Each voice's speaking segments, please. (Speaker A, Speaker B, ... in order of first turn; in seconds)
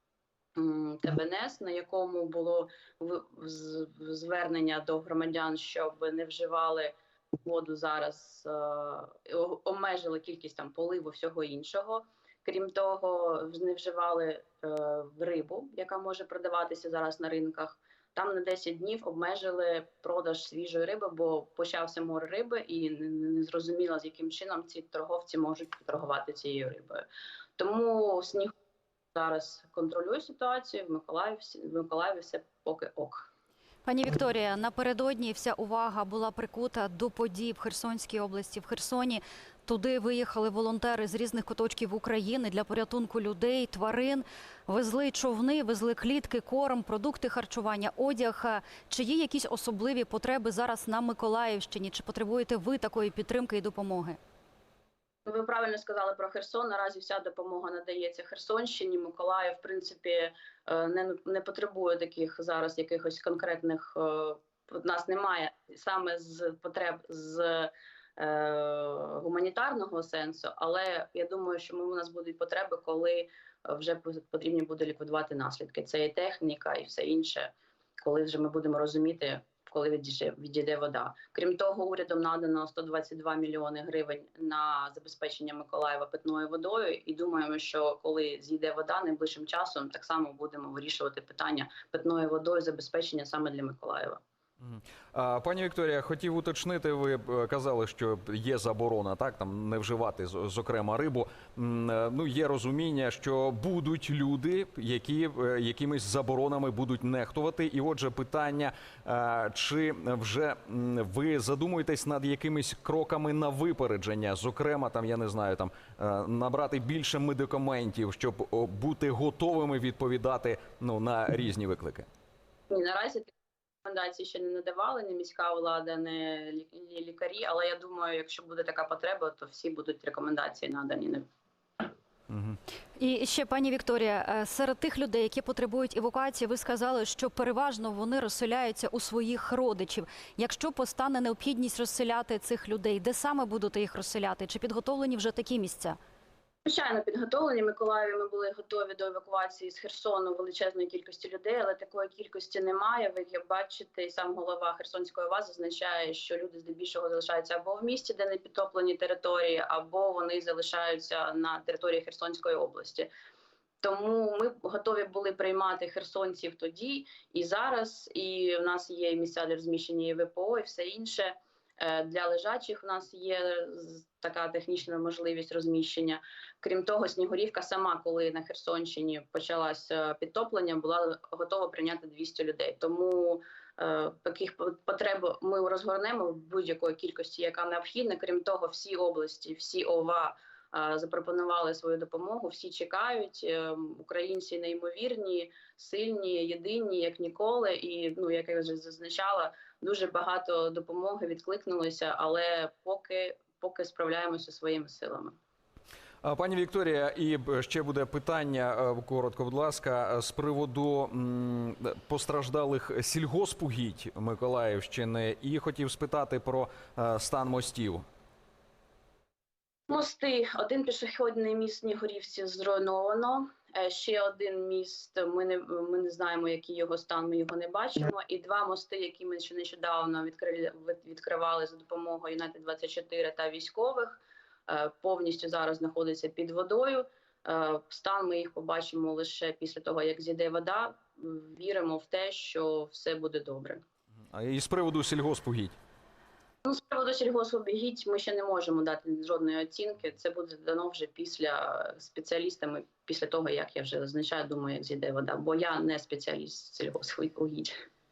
Speaker A: 0.6-27.1, 27.6-28.5, 29.1-33.3, 55.2-94.2, 122.7-123.3, 123.8-131.3, 146.7-163.1, 163.8-205.4, 219.9-243.8, 246.6-257.8
Speaker B: 33.9-54.2, 133.0-146.0
Speaker C: 94.6-122.1, 132.3-132.6, 206.2-218.1, 244.3-245.8